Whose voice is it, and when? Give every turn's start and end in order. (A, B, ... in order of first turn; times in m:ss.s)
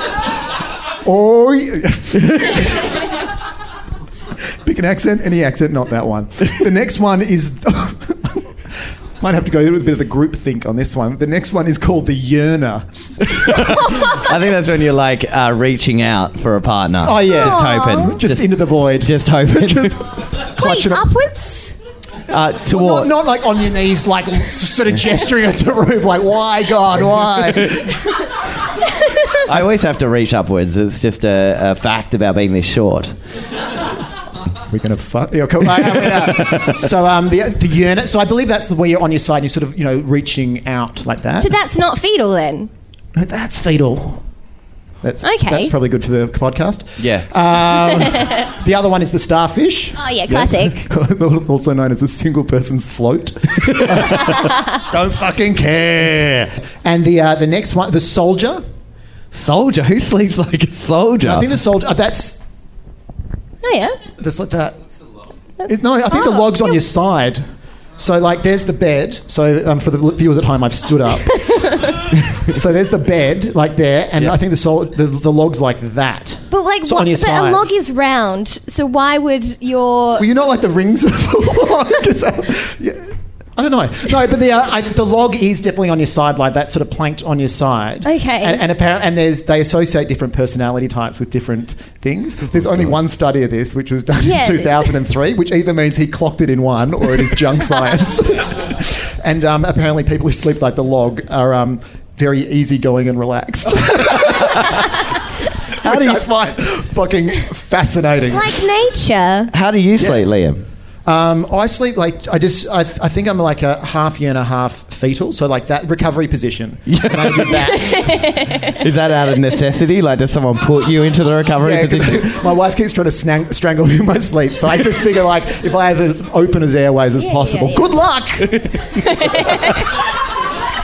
0:01.0-0:02.8 A
0:04.6-0:08.5 A
0:09.2-0:12.9 A
0:13.4-0:18.4 B
0:17.0-0:21.1 A
0:17.4-0:18.2 C
0:19.0-0:20.0 B
0:20.6-0:21.8 C
0:22.3-0:23.1 B
0:22.7-0:28.0 A
0:29.5-0:33.2 B
0:34.7-0:41.5 A
0:36.3-0:36.7 B
0:41.4-0:42.7 C
0:43.1-0:44.2 A
0:45.0-0:58.6 A
0:45.2-0:45.7 C
0:47.0-0:47.3 B
0:47.9-0:48.5 C
0:50.0-0:50.9 C
0:59.3-1:01.5 B
1:01.2-1:02.4 A
1:03.6-1:04.0 C
1:04.2-1:04.8 A
1:05.6-1:07.4 A
1:06.1-1:06.6 C
1:08.0-1:17.6 A
1:11.4-1:12.0 C
1:16.5-1:20.2 C
1:20.2-1:45.0 A
1:28.0-1:28.6 C
1:34.2-1:34.9 C
1:45.8-1:48.6 A
1:45.8-1:46.2 B
1:48.3-1:49.5 C
1:49.5-1:50.6 B
1:51.1-1:58.2 A
1:56.9-1:57.7 B
1:57.7-1:58.8 C
1:58.7-2:02.3 B
2:01.6-2:09.6 A
2:07.2-2:07.9 C
2:09.0-2:09.9 C